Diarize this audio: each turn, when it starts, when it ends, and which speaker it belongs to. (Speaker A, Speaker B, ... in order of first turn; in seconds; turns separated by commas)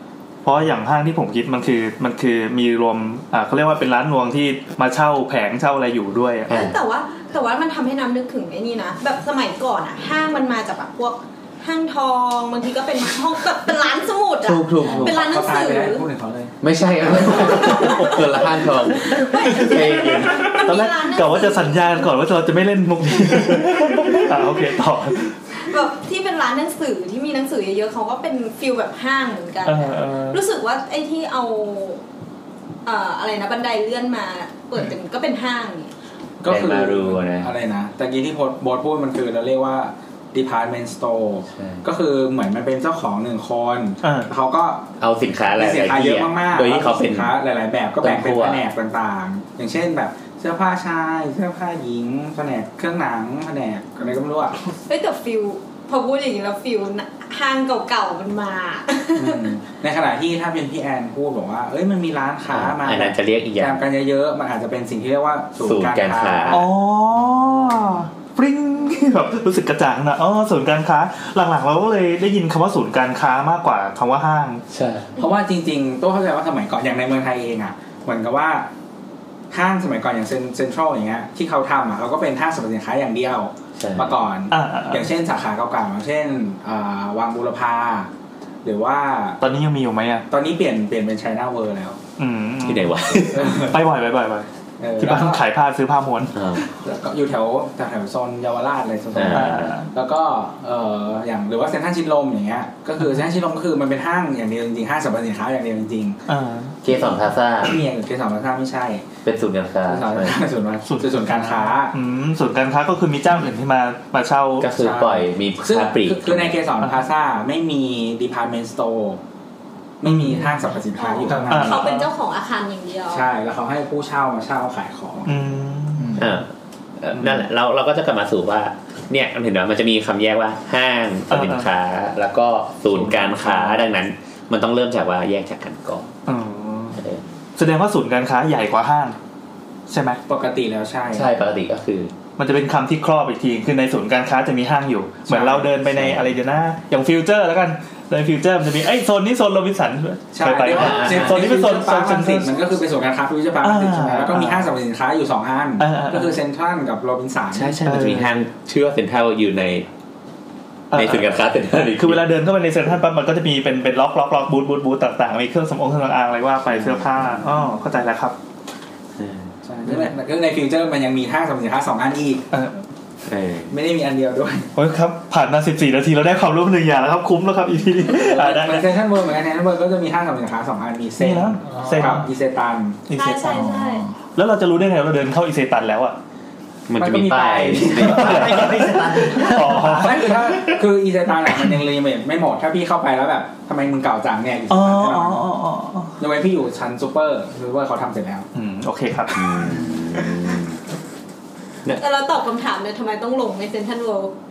Speaker A: 0.4-6.5, Speaker B: 6.5-6.7, Speaker C: 6.5-16.0, Speaker B: 14.4-15.3, Speaker D: 14.8-16.5, Speaker B: 16.6-20.6, Speaker C: 17.3-18.4, Speaker A: 17.6-18.3, Speaker C: 18.9-22.1, Speaker A: 20.4-25.4, Speaker C: 25.6-32.0, Speaker A: 29.6-30.4, Speaker C: 32.8-35.9, Speaker D: 36.4-44.9, Speaker B: 36.4-37.5, Speaker B: 41.5-41.8, Speaker A: 44.0-44.3, Speaker B: 45.0-47.4, Speaker D: 45.5-54.7, Speaker B: 48.0-48.6, Speaker C: 54.9-59.5, Speaker D: 59.2-66.7, Speaker B: 62.5-63.9, Speaker B: 65.6-66.7, Speaker A: 66.5-74.6, Speaker B: 74.7-75.1, Speaker D: 75.2-78.7, Speaker D: 79.5-88.1, Speaker B: 83.8-84.2, Speaker A: 84.5-85.1, Speaker D: 88.6-89.4, Speaker A: 89.4-90.3, Speaker D: 90.3-92.0, Speaker A: 92.2-92.9, Speaker B: 92.6-93.6, Speaker D: 93.3-93.8, Speaker A: 93.6-94.5, Speaker D: 94.8-95.4, Speaker A: 95.0-96.6, Speaker B: 96.3-96.6, Speaker D: 96.7-106.2, Speaker B: 99.1-99.7, Speaker A: 99.3-99.9, Speaker A: 106.3-106.8, Speaker B: 106.8-107.8, Speaker D: 106.9-109.0, Speaker B: 109.2-110.4, Speaker D: 109.9-111.9, Speaker A: 110.9-114.7, Speaker B: 114.6-116.6, Speaker D: 114.7-119.2, Speaker D: 120.0-121.9, Speaker A: 120.0-120.6, Speaker C: 121.0-123.3, Speaker A: 121.3-122.1, Speaker D: 123.1-125.5, Speaker A: 125.2-126.3, Speaker B: 126.2-136.1, Speaker A: 131.3-131.7, Speaker D: 132.9-133.8, Speaker A: 136.3-137.0, Speaker B: 136.9-137.2, Speaker A: 137.6-139.2, Speaker A: 139.9-140.2, Speaker D: 140.3-141.3, Speaker B: 141.1-142.1, Speaker A: 142.4-152.5, Speaker D: 145.3-145.7, Speaker B: 145.8-146.3, Speaker D: 150.3-157.8, Speaker B: 150.7-151.5, Speaker A: 153.6-154.7, Speaker A: 155.8-156.4, Speaker B: 157.5-159.9, Speaker A: 157.8-158.3, Speaker A: 160.9-161.3, Speaker B: 160.9-162.2, Speaker A: 161.8-168.3, Speaker B: 166.8-167.3, Speaker B: 169.2-169.5, Speaker D: 169.6-172.4, Speaker B: 173.2-173.7, Speaker D: 173.7-174.7, Speaker A: 174.8-178.9, Speaker D: 178.1-183.0, Speaker A: 181.2-182.3, Speaker A: 183.1-186.2, Speaker C: 183.1-184.0, Speaker B: 186.9-189.5, Speaker D: 187.0-195.4, Speaker A: 187.9-190.8, Speaker A: 194.7-196.1, Speaker D: 196.2-198.5, Speaker A: 198.5-199.6, Speaker B: 199.3-200.8, Speaker D: 199.7-200.2, Speaker C: 202.0-204.3